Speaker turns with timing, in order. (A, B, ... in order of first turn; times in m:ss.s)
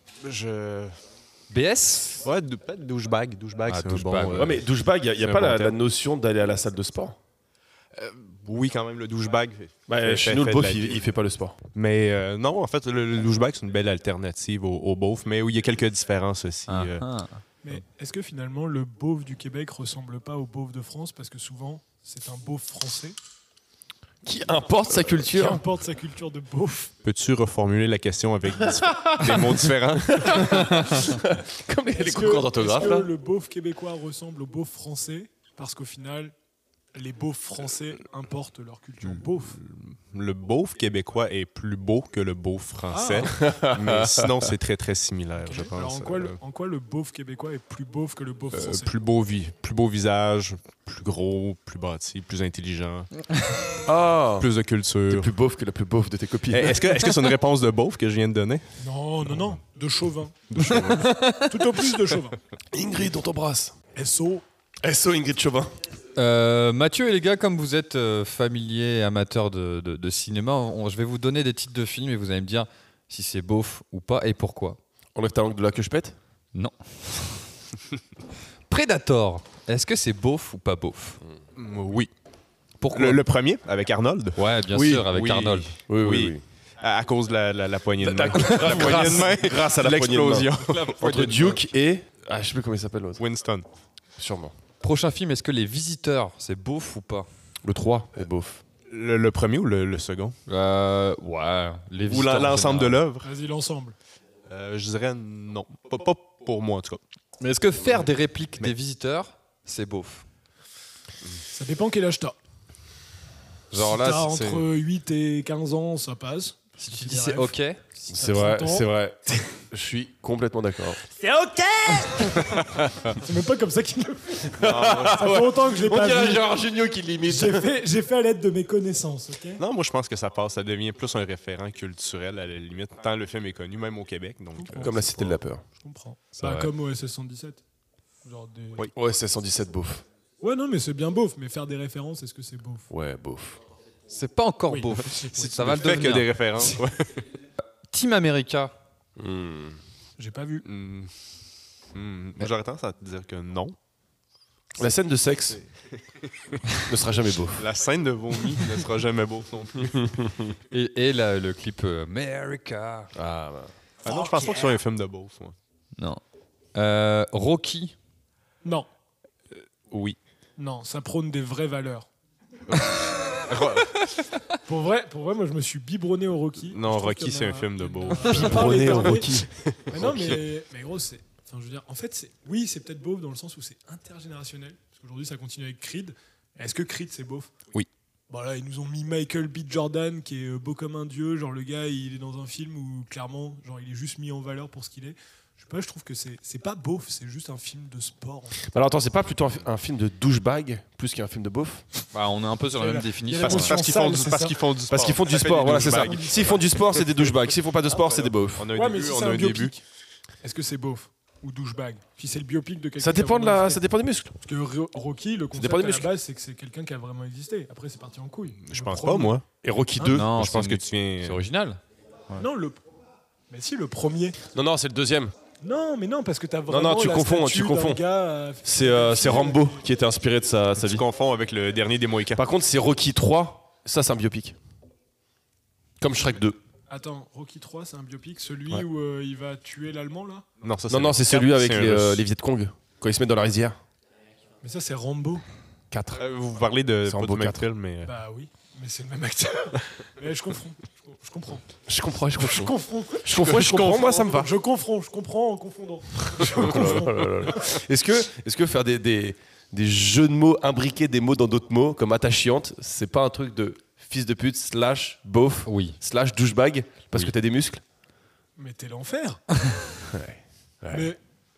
0:00.2-0:01.0 A
0:01.5-0:02.2 B
0:02.2-0:04.6 A
0:03.7-0:04.6 B
0:04.3-0:07.2 C
0:05.2-0:05.8 A
0:08.0-0:11.0 A
0:09.9-0:11.6 C
0:11.8-0:17.0 A
0:16.7-0:17.4 B
0:17.6-0:23.2 D
0:24.2-0:25.6 C
0:25.3-0:26.9 D
0:27.0-0:30.6 A
0:28.8-0:33.1 C
0:32.0-0:36.4 D
0:36.9-0:39.6 D
0:39.5-0:46.4 A
0:42.9-0:43.4 D
0:43.3-0:44.5 C
0:45.4-0:48.9 D
0:48.5-0:53.1 A
0:53.9-0:54.5 C
0:54.4-0:55.3 A
0:55.1-0:57.1 C
0:56.5-0:58.6 A
0:58.8-1:02.4 D
1:00.6-1:01.7 B
1:02.7-1:03.7 C
1:04.0-1:04.4 D
1:04.8-1:05.7 C
1:06.2-1:14.8 B
1:15.2-1:16.2 C
1:16.5-1:17.4 B
1:18.7-1:21.2 B
1:21.6-1:22.1 A
1:22.8-1:23.2 B
1:22.9-1:24.4 A
1:24.4-1:25.7 B
1:24.7-1:26.4 C
1:25.2-1:31.1 A
1:28.0-1:33.2 C
1:30.8-1:31.7 B
1:33.2-1:33.6 A
1:34.2-1:34.5 C
1:34.8-1:37.3 B
1:37.6-1:38.6 C
1:38.9-1:40.4 A
1:40.5-1:43.0 B
1:42.0-1:43.3 A
1:43.2-1:44.0 D
1:44.5-1:47.0 A
1:47.4-1:50.2 B
1:51.5-1:52.4 D
1:53.7-1:54.6 B
1:53.7-1:58.9 D
1:56.8-1:57.8 B
1:58.1-2:01.0 C
2:01.1-2:02.5 D
2:02.6-2:03.2 A
2:03.2-2:06.5 D
2:04.6-2:07.6 C
2:04.6-2:05.5 A
2:07.3-2:09.6 D
2:09.6-2:15.2 A
2:14.6-2:17.6 D
2:14.8-2:15.6 C
2:16.4-2:16.7 B
2:18.2-2:18.9 D
2:19.0-2:20.0 C
2:20.4-2:22.9 D
2:22.9-2:23.6 C
2:24.1-2:26.3 B
2:24.7-2:26.8 D
2:25.6-2:27.2 A
2:27.9-2:28.7 B
2:29.2-2:29.8 C
2:30.2-2:30.7 D
2:30.6-2:31.1 A
2:31.9-2:33.8 A
2:34.8-2:35.6 C
2:36.9-2:37.6 C
2:37.6-2:40.0 A
2:40.0-2:40.4 C
2:40.7-2:43.1 B
2:43.2-2:44.3 C
2:44.0-2:45.6 A
2:46.7-2:48.0 B
2:49.6-2:50.2 A
2:50.6-2:52.1 D
2:52.7-2:54.0 A
2:54.7-2:59.4 D
2:56.7-2:59.1 A
2:58.4-2:59.5 C
2:59.9-3:00.4 A
2:59.9-3:07.5 D
3:08.3-3:18.6 D
3:18.7-3:21.8 C
3:22.1-3:23.9 B
3:22.8-3:24.7 D
3:23.4-3:26.7 A
3:24.9-3:28.7 C
3:25.9-3:26.6 D
3:28.6-3:29.7 A
3:28.7-3:29.8 D
3:30.4-3:33.8 D
3:33.0-3:34.3 C
3:34.4-3:39.4 D
3:35.5-3:36.1 C
3:38.6-3:39.4 A
3:39.6-3:40.6 C
3:40.0-3:41.8 B
3:40.4-3:41.4 A
3:42.4-3:42.8 D
3:43.5-3:44.4 D
3:44.5-3:45.3 C
3:45.6-3:49.8 D
3:46.7-3:48.0 C
3:48.6-3:51.0 C
3:50.8-3:52.4 A
3:52.4-3:54.6 C
3:56.0-3:56.6 C
3:56.9-4:00.5 D
4:00.6-4:02.2 A
4:00.9-4:03.8 C
4:04.6-4:05.4 D
4:05.9-4:06.2 C
4:06.1-4:08.1 A
4:07.1-4:07.7 C
4:08.0-4:11.6 D
4:11.9-4:14.5 C
4:12.4-4:17.7 D
4:13.5-4:14.1 A
4:16.4-4:27.8 C
4:25.7-4:26.0 B
4:28.6-4:29.4 D
4:30.1-4:31.1 C
4:30.9-4:31.2 D